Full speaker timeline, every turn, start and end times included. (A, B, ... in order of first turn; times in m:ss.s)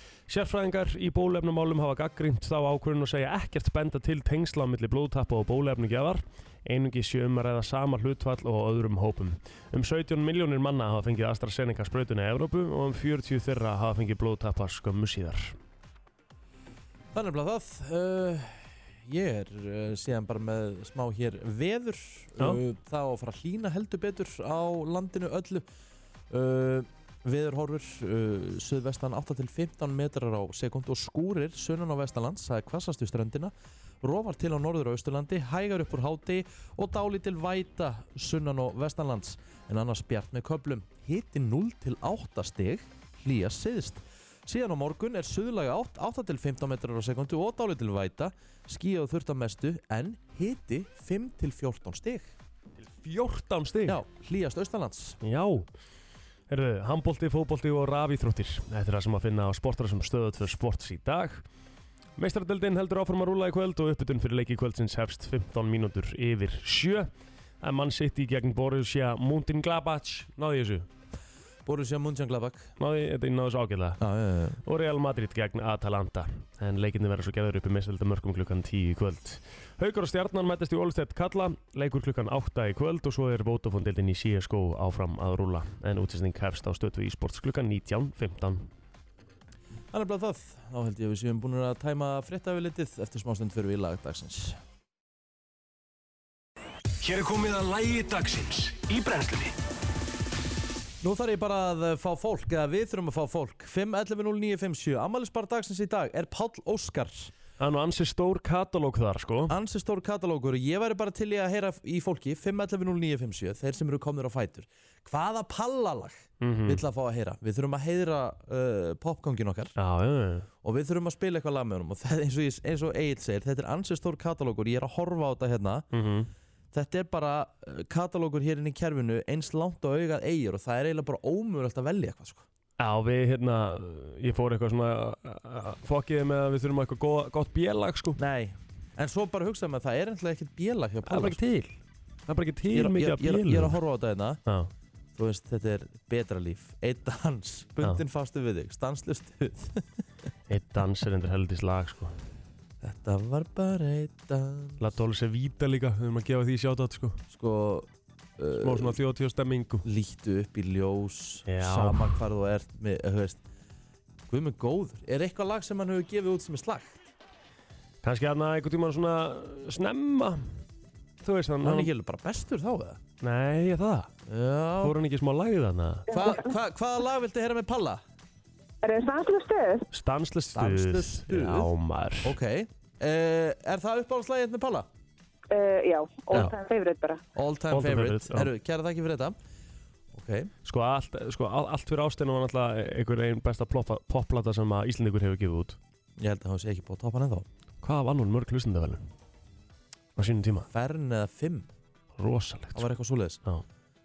0:00.3-0:15.6 A
0:17.1-0:25.6 B
0:26.3-0:52.3 B
0:52.8-0:54.0 A
0:53.9-0:55.2 B
0:55.2-0:55.7 A
0:56.5-1:01.4 A
1:02.2-1:07.1 A
1:07.6-1:10.9 A
1:11.6-1:12.7 B
1:12.8-1:14.0 A
1:14.0-1:14.6 B
1:14.6-1:28.7 A
1:29.9-1:34.6 B
1:37.2-1:39.4 C
1:41.0-1:47.3 B
1:47.6-1:49.5 A
1:49.5-1:59.7 B
1:56.4-1:56.8 A
1:59.8-2:00.5 A
2:00.6-2:05.9 B
2:05.9-2:06.3 A
2:06.7-2:12.4 B
2:12.8-2:18.2 A
2:18.2-2:21.4 B
2:21.1-2:21.8 A
2:22.3-2:23.8 A
2:22.7-2:24.4 B
2:24.5-2:24.7 A
2:25.2-2:29.8 B
2:30.5-2:32.2 A
2:32.8-2:34.8 B
2:34.8-2:37.2 A
2:37.3-2:39.0 B
2:38.6-2:39.8 A
2:39.8-2:43.4 B
2:41.5-2:42.2 A
2:44.3-2:47.0 B
2:48.0-2:50.6 A
2:51.2-2:51.9 A
2:51.6-2:53.0 B
2:53.2-2:54.1 A
2:54.3-2:55.0 B
2:54.8-2:56.1 A
2:56.1-2:58.0 B
2:56.1-2:56.5 D
2:58.8-2:59.9 D
2:59.9-3:02.3 A
3:00.5-3:01.7 B
3:02.2-3:04.9 B
3:05.5-3:07.2 D
3:07.3-3:09.4 B
3:07.7-3:08.5 A
3:10.1-3:10.5 B
3:10.6-3:15.8 A
3:16.2-3:17.5 B
3:17.8-3:19.1 A
3:20.2-3:20.7 A
3:20.7-3:21.7 B
3:22.2-3:22.9 A
3:22.8-3:23.4 B